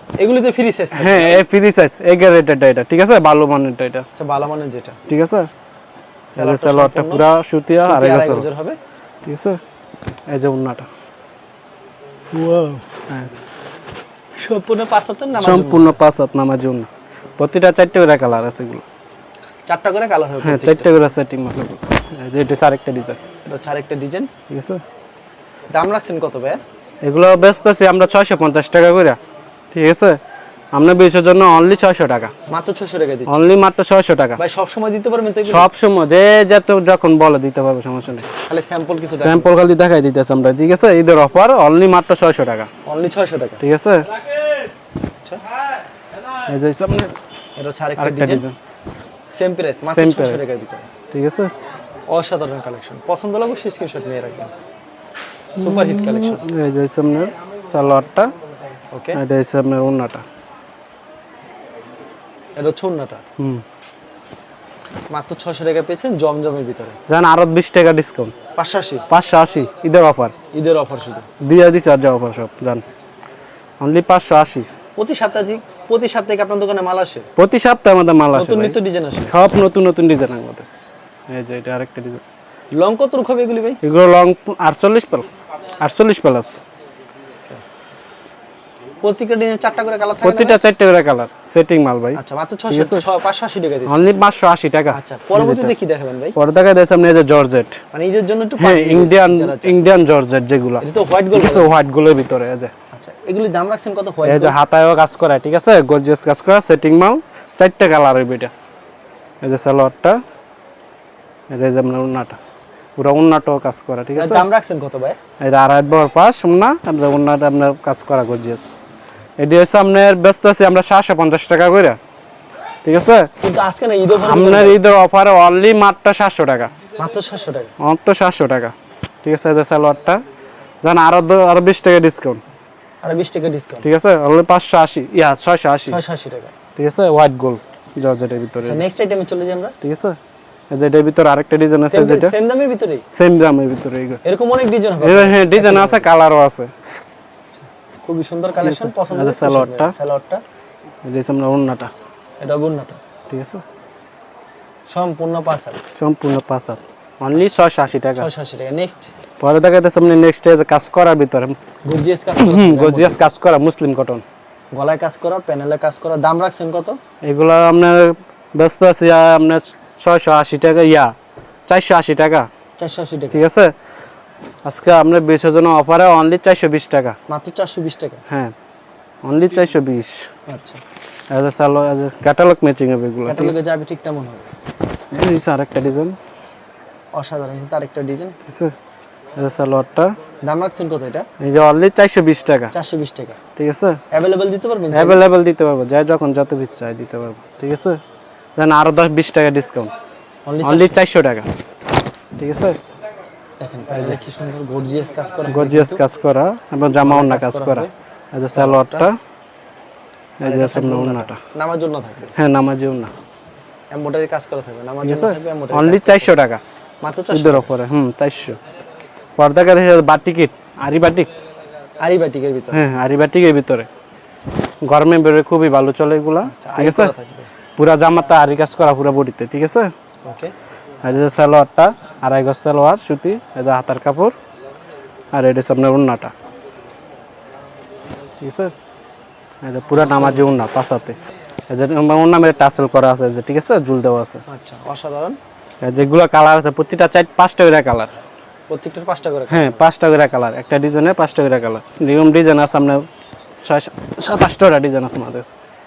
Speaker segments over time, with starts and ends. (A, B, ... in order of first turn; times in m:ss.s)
0:00.2-0:01.4 A
0:00.9-0:04.0 B
0:04.1-0:05.0 A
0:05.1-0:05.5 B
0:06.3-0:07.2 A
0:06.4-0:08.4 B
0:07.8-0:08.8 A
0:09.2-0:09.6 B
0:10.3-0:10.9 B
0:12.3-0:13.4 B
0:14.4-0:16.0 A
0:15.4-0:18.8 B
0:19.7-0:20.9 A
0:20.4-0:23.2 B
0:23.4-0:24.3 A
0:24.5-0:24.8 B
0:25.7-0:26.6 A
0:27.0-0:29.2 B
0:29.7-0:30.2 B
0:30.7-0:32.3 B
0:32.5-0:33.5 A
0:33.3-0:34.4 B
0:34.4-0:35.7 A
0:35.4-0:38.2 B
0:38.2-0:39.5 A
0:39.1-0:42.7 B
0:42.8-0:43.6 A
0:43.6-0:44.1 B
0:46.5-0:47.1 B
0:47.6-0:48.4 A
0:48.0-0:48.6 B
0:49.3-0:50.9 A
0:49.9-0:50.4 B
0:51.1-0:51.5 B
0:52.1-0:54.5 A
0:55.6-0:56.5 A
0:55.6-0:58.3 B
0:58.9-0:59.2 A
0:59.1-1:00.2 B
1:02.6-1:03.2 A
1:03.4-1:03.6 B
1:05.1-1:07.0 A
1:07.1-1:08.3 B
1:08.6-1:09.1 A
1:09.1-1:10.3 B
1:10.5-1:11.3 A
1:11.4-1:12.8 B
1:13.8-1:14.7 B
1:15.0-1:17.3 A
1:17.4-1:18.8 B
1:18.3-1:19.3 A
1:19.3-1:20.6 B
1:21.3-1:22.2 B
1:22.7-1:23.8 A
1:23.8-1:25.3 B
1:25.8-1:26.6 B
1:29.0-1:30.6 A
1:30.2-1:33.0 B
1:32.1-1:34.1 A
1:33.9-1:35.7 B
1:34.9-1:36.4 A
1:36.4-1:37.8 B
1:37.9-1:39.8 A
1:38.6-1:42.7 B
1:40.8-1:41.7 A
1:42.9-1:44.6 A
1:44.2-1:48.5 B
1:49.4-1:50.2 B
1:51.5-1:52.4 B
1:53.0-1:54.4 B
1:54.2-1:55.2 A
1:55.4-1:58.7 B
1:59.4-2:02.0 B
2:02.8-2:03.3 B
2:03.4-2:04.8 A
2:04.2-2:06.7 B
2:07.0-2:07.7 A
2:07.8-2:10.2 B
2:10.8-2:12.4 B
2:13.0-2:13.8 A
2:13.8-2:16.0 B
2:15.9-2:16.5 A
2:16.8-2:18.8 B
2:18.6-2:19.7 A
2:19.8-2:20.2 B
2:20.7-2:22.3 B
2:21.9-2:23.0 A
2:23.1-2:24.2 B
2:24.2-2:26.1 A
2:25.0-2:26.7 B
2:27.5-2:30.4 A
2:28.6-2:29.9 B
2:31.0-2:31.9 B
2:32.4-2:33.0 A
2:33.3-2:33.6 B
2:34.9-2:35.8 A
2:36.0-2:38.3 B
2:38.2-2:39.1 A
2:39.4-2:41.6 B
2:41.8-2:43.2 A
2:42.4-2:44.2 B
2:44.7-2:47.0 A
2:47.2-2:51.1 B
2:51.7-2:52.5 B
2:52.8-2:53.4 A
2:53.3-2:53.7 B
2:54.6-2:57.2 B
2:57.3-2:58.2 A
2:59.2-3:00.3 B
3:00.5-3:00.8 A
3:01.3-3:03.6 B
3:03.2-3:04.5 A
3:05.1-3:06.2 B
3:07.1-3:08.4 A
3:08.4-3:08.7 B
3:09.4-3:10.2 B
3:10.4-3:11.3 A
3:11.4-3:12.7 B
3:12.7-3:13.4 A
3:13.6-3:14.0 B
3:14.1-3:15.2 A
3:14.9-3:18.0 B
3:18.6-3:19.9 B
3:20.4-3:21.0 A
3:20.6-3:21.5 B
3:22.4-3:22.8 B
3:23.6-3:26.0 A
3:25.5-3:29.2 B
3:27.0-3:27.9 A
3:28.4-3:29.1 A
3:30.4-3:31.4 B
3:30.4-3:32.3 A
3:32.4-3:33.1 B
3:33.9-3:36.3 A
3:35.0-3:36.6 B
3:37.0-3:37.7 A
3:37.3-3:38.6 B
3:39.4-3:41.3 B
3:42.0-3:42.9 A
3:42.7-3:43.9 B
3:44.8-3:47.1 B
3:46.4-3:47.5 A
3:47.8-3:49.9 B
3:50.2-3:50.5 A
3:51.0-3:54.3 B
3:55.3-3:56.3 B
3:58.4-3:58.7 B
3:59.6-4:01.2 B
4:00.0-4:00.5 A
4:01.7-4:04.4 B
4:04.5-4:05.4 A
4:05.8-4:08.1 B
4:08.7-4:09.9 A
4:09.5-4:13.1 B
4:13.6-4:15.5 B